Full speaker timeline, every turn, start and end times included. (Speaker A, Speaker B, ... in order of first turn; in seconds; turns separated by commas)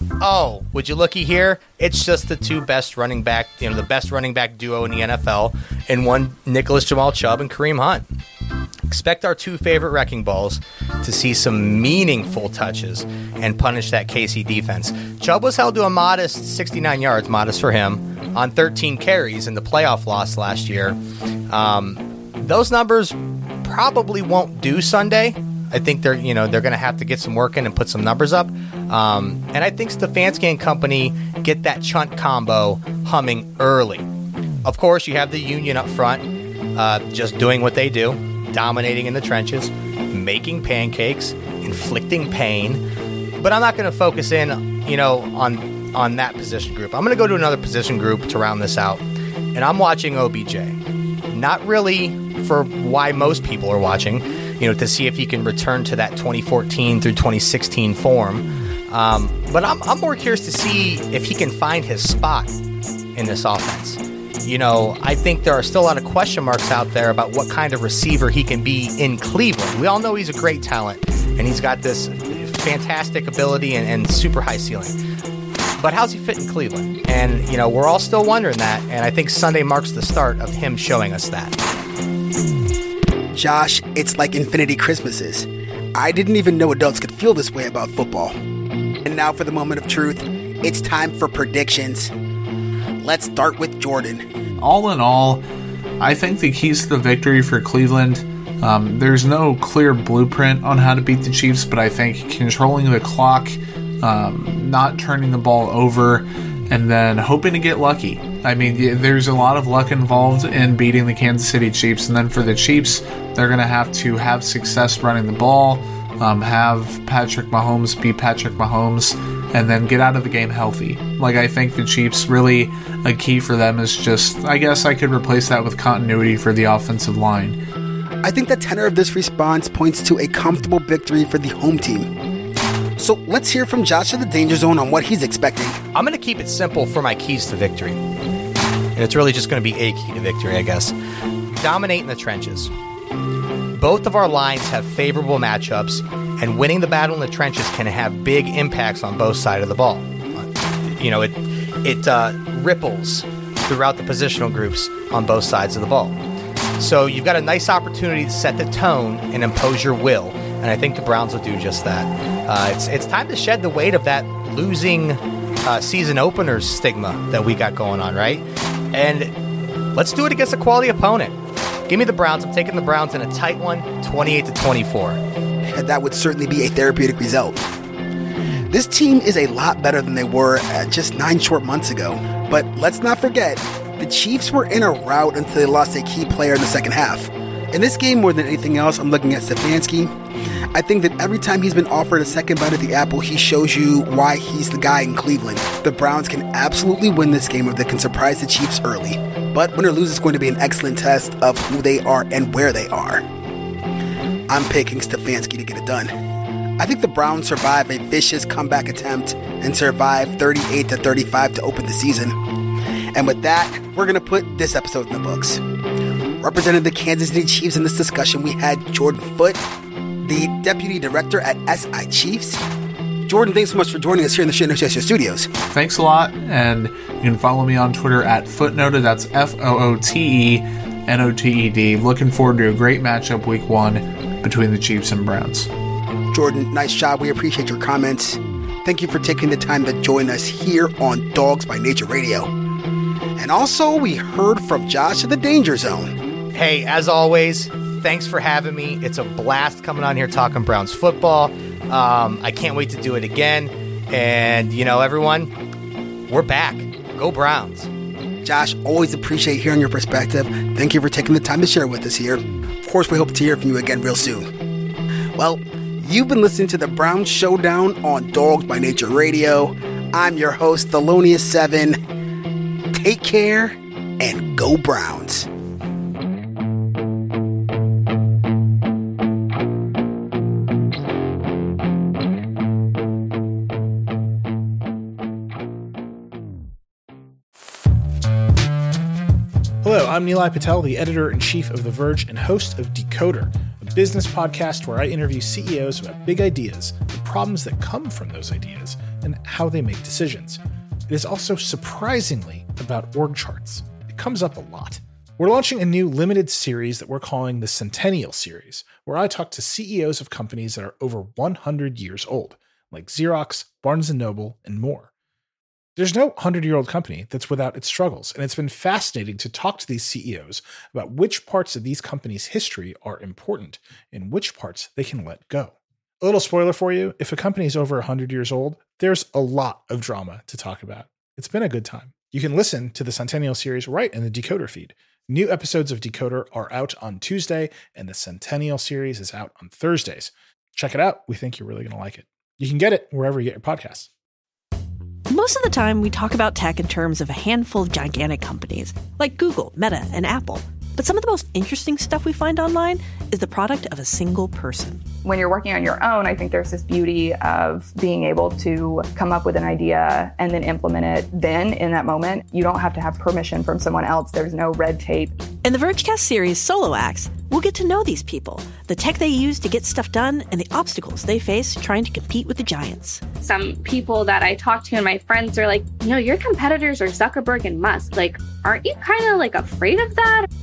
Speaker A: 0.2-8.1, Speaker A: 8.9-21.0, Speaker A: 21.5-34.1, Speaker A: 34.6-42.8, Speaker A: 43.4-49.0, Speaker A: 49.5-50.8, Speaker A: 51.3-62.5, Speaker A: 63.1-75.0, Speaker A: 75.8-81.6, Speaker B: 83.3-88.3, Speaker B: 89.0-92.1, Speaker B: 93.0-94.2, Speaker C: 94.6-95.4, Speaker C: 96.0-127.6, Speaker B: 128.2-132.1, Speaker B: 133.0-135.8, Speaker A: 135.9-138.0, Speaker A: 139.0-140.9, Speaker A: 141.5-142.7, Speaker A: 143.7-156.2, Speaker A: 156.8-169.3, Speaker A: 169.9-171.4, Speaker A: 171.9-175.2, Speaker B: 175.7-177.7, Speaker B: 178.7-190.1, Speaker B: 190.7-203.2, Speaker B: 204.5-206.1, Speaker B: 206.8-212.4, Speaker B: 213.1-215.6, Speaker B: 216.4-219.7, Speaker B: 220.2-222.6, Speaker B: 223.3-225.5, Speaker C: 225.7-235.7, Speaker B: 236.3-242.5, Speaker B: 243.4-246.2, Speaker A: 246.5-255.5, Speaker A: 256.3-257.9, Speaker B: 258.4-264.5, Speaker B: 265.4-272.0, Speaker B: 272.9-275.5, Speaker D: 289.8-315.1, Speaker D: 316.0-344.1, Speaker E: 345.3-355.0, Speaker F: 355.2-365.4, Speaker E: 365.6-373.2, Speaker G: 373.4-380.5